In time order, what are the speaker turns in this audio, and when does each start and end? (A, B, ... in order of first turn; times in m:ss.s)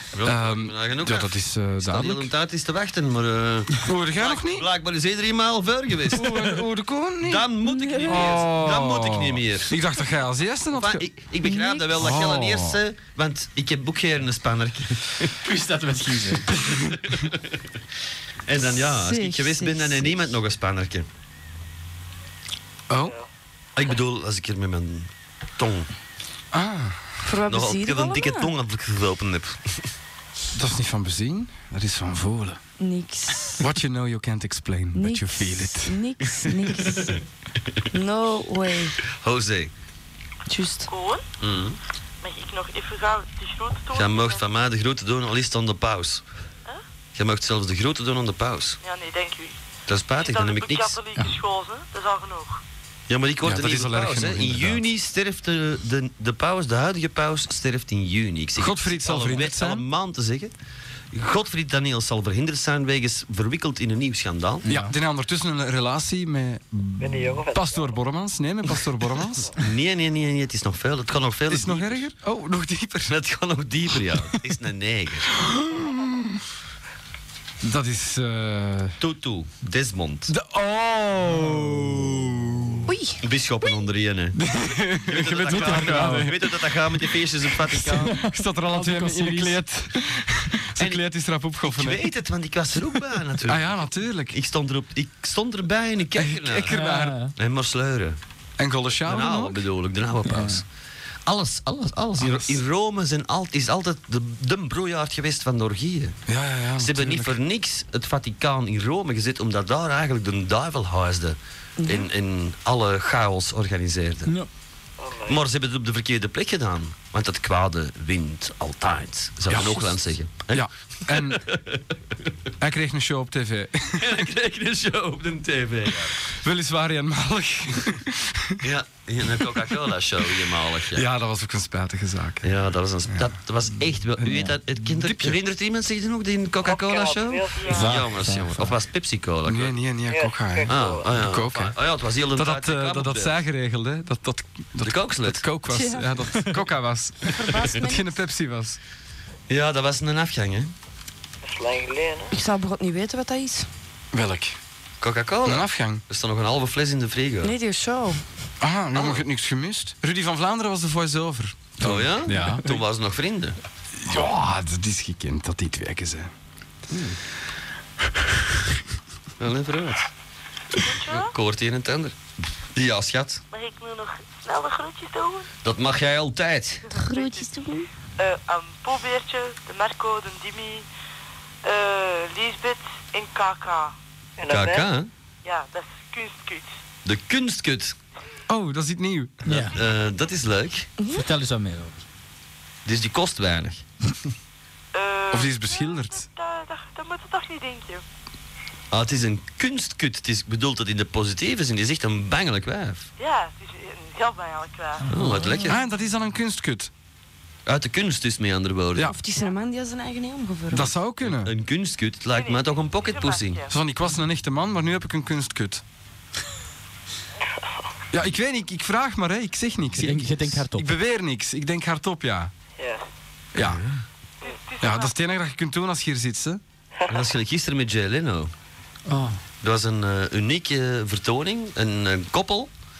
0:00.1-0:06.5 A
0:00.2-0:02.3 B
0:03.8-0:04.6 B
0:06.1-0:07.4 B
0:07.2-0:09.7 A
0:07.6-0:08.3 C
0:08.0-0:11.0 B
0:10.7-0:15.3 A
0:11.4-0:11.9 C
0:11.9-0:12.8 B
0:15.4-0:16.6 D
0:18.5-0:21.1 A
0:18.7-0:20.3 C
0:22.9-0:23.2 B
0:23.8-0:25.9 A
0:26.5-0:27.0 B
0:27.2-0:28.5 C
0:27.5-0:29.8 A
0:30.5-0:32.6 B
0:32.8-0:33.6 C
0:33.6-0:36.0 B
0:34.9-0:37.2 C
0:37.9-0:39.0 C
0:39.2-0:39.7 A
0:40.5-0:40.9 C
0:40.9-0:41.2 E
0:41.4-0:41.8 A
0:42.2-0:44.4 E
0:43.9-0:46.2 A
0:47.1-0:48.8 A
0:48.8-0:49.6 E
0:49.9-0:51.0 A
0:50.2-0:52.6 E
0:53.1-1:00.5 A
0:53.4-0:54.8 B
0:58.6-0:59.8 B
1:01.1-1:04.6 A
1:04.6-1:04.9 D
1:04.6-1:09.5 B
1:07.0-1:07.9 F
1:09.6-1:12.0 A
1:11.5-1:13.1 B
1:13.1-1:15.3 A
1:15.4-1:16.4 B
1:17.6-1:19.0 B
1:19.0-1:20.3 A
1:20.3-1:22.8 B
1:22.8-1:23.2 C
1:23.2-1:24.4 A
1:24.4-1:26.7 B
1:25.0-1:28.2 A
1:25.8-1:26.2 D
1:27.7-1:32.0 B
1:27.9-1:29.6 D
1:30.8-1:31.0 A
1:31.6-1:36.8 A
1:33.4-1:34.4 B
1:36.2-1:37.2 B
1:36.7-1:37.3 D
1:37.3-1:38.2 A
1:38.6-1:39.6 B
1:39.0-1:40.6 A
1:40.2-1:40.6 D
1:41.2-1:46.2 A
1:46.3-1:47.3 B
1:46.8-1:54.3 A
1:51.8-1:52.1 C
1:55.0-1:55.4 F
1:55.2-2:01.8 A
1:59.5-2:01.4 B
2:02.6-2:04.2 B
2:04.0-2:06.2 A
2:06.4-2:08.6 B
2:08.6-2:11.0 A
2:10.9-2:12.5 B
2:12.4-2:19.8 A
2:14.2-2:15.4 B
2:16.6-2:17.8 F
2:17.6-2:17.9 E
2:17.7-2:18.7 D
2:19.5-2:21.8 B
2:20.1-2:21.1 F
2:20.6-2:23.3 A
2:22.3-2:28.8 B
2:24.8-2:25.4 A
2:25.7-2:26.1 C
2:27.3-2:28.1 C
2:29.5-2:30.7 A
2:31.4-2:32.2 F
2:32.3-2:33.7 C
2:34.1-2:34.6 B
2:35.0-2:37.5 A
2:35.4-2:36.0 B
2:37.4-2:38.2 C
2:38.6-2:42.7 B
2:38.9-2:39.2 A
2:41.8-2:43.6 A
2:44.0-2:46.3 B
2:46.9-2:47.2 A
2:49.4-2:50.1 A
2:50.8-2:51.3 E
2:51.1-2:52.2 A
2:52.7-2:53.4 A
2:53.5-2:55.5 E
2:55.6-2:56.9 A
2:56.9-2:57.9 C
2:56.9-2:57.5 E
2:58.2-3:00.8 E
3:01.6-3:03.9 E
3:04.4-3:04.9 F
3:04.5-3:05.1 A
3:05.4-3:06.7 E
3:07.0-3:08.0 A
3:08.5-3:09.4 B
3:09.4-3:09.8 D
3:09.5-3:10.9 A
3:11.0-3:11.2 C
3:11.1-3:12.0 D
3:12.8-3:13.8 A
3:14.9-3:18.0 E
3:15.3-3:16.2 B
3:18.9-3:23.1 A
3:23.2-3:25.1 E
3:25.1-3:25.8 A
3:25.1-3:25.4 D
3:25.4-3:25.7 C
3:25.6-3:26.9 B
3:27.6-3:29.1 A
3:29.0-3:30.9 C
3:30.7-3:31.5 B
3:31.2-3:33.6 A
3:32.3-3:33.7 E
3:33.7-3:35.8 B
3:38.1-3:42.5 B
3:39.9-3:41.0 D
3:42.8-3:43.0 F
3:43.5-3:43.8 B
3:43.6-3:43.9 A
3:44.4-3:45.2 E
3:44.8-3:46.6 B
3:47.1-3:48.5 A
3:49.1-3:49.4 D
3:49.6-3:52.7 A